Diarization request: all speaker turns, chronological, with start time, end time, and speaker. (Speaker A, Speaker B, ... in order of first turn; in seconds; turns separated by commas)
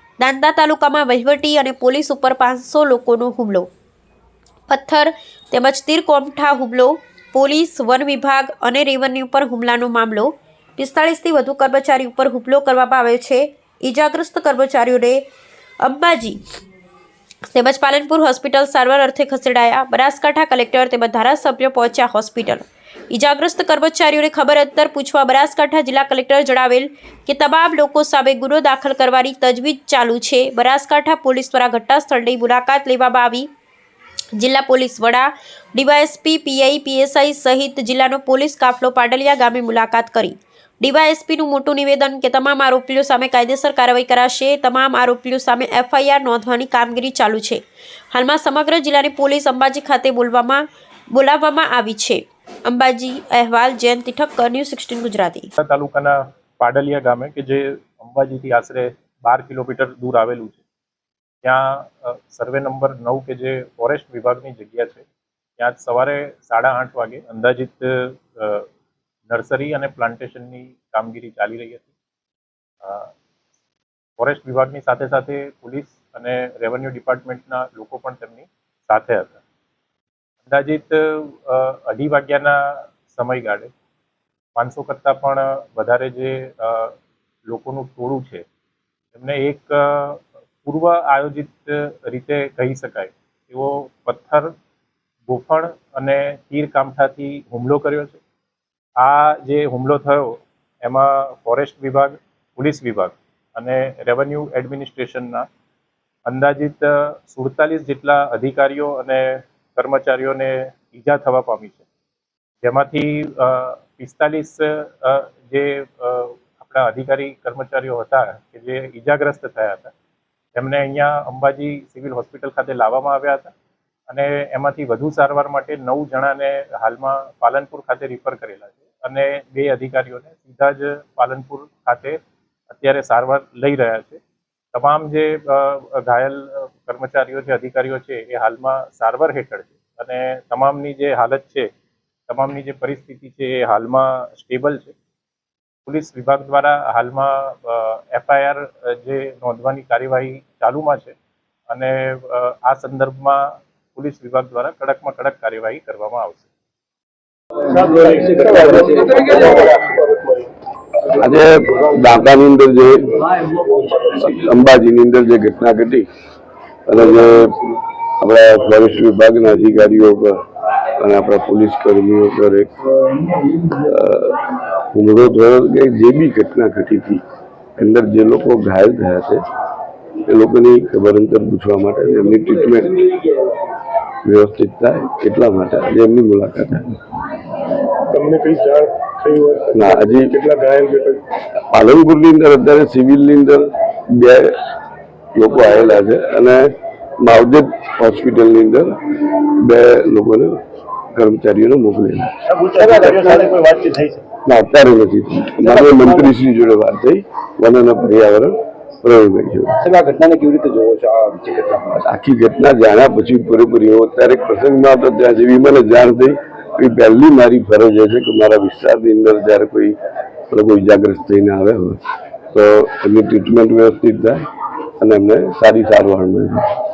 Speaker A: 0.2-3.7, Speaker A: 4.7-15.2, Speaker A: 15.8-16.4, Speaker A: 17.5-33.5, Speaker A: 34.4-55.5, Speaker B: 55.6-60.6, Speaker B: 61.4-65.0, Speaker B: 65.6-68.7, Speaker B: 69.3-71.9, Speaker B: 72.8-73.1, Speaker B: 74.2-79.3, Speaker B: 80.5-83.7, Speaker B: 84.5-86.9, Speaker B: 87.5-88.4, Speaker B: 89.1-94.5, Speaker B: 95.3-98.2, Speaker B: 99.0-105.5, Speaker B: 106.2-111.8, Speaker B: 112.6-119.9, Speaker B: 120.5-123.5, Speaker B: 124.1-132.2, Speaker B: 132.7-134.2, Speaker B: 134.7-141.7, Speaker B: 142.3-144.9, Speaker B: 145.8-151.2, Speaker B: 151.7-156.5, Speaker C: 157.7-160.5, Speaker D: 158.0-159.8, Speaker E: 161.2-163.2, Speaker C: 163.5-164.2, Speaker E: 164.1-166.1, Speaker E: 166.9-167.6, Speaker E: 168.2-170.4, Speaker E: 170.9-172.7, Speaker E: 173.8-177.2, Speaker E: 177.8-179.4, Speaker E: 180.2-183.0, Speaker D: 182.2-182.9, Speaker E: 184.2-187.0, Speaker C: 188.1-191.2, Speaker E: 189.7-190.3, Speaker E: 191.7-194.6, Speaker E: 195.3-200.6, Speaker E: 201.1-202.3, Speaker C: 202.4-204.2, Speaker D: 202.8-203.6, Speaker E: 204.4-209.7, Speaker D: 205.6-206.3, Speaker D: 209.8-212.0, Speaker E: 212.0-219.9, Speaker E: 220.5-222.0, Speaker E: 222.5-224.4, Speaker E: 225.0-226.7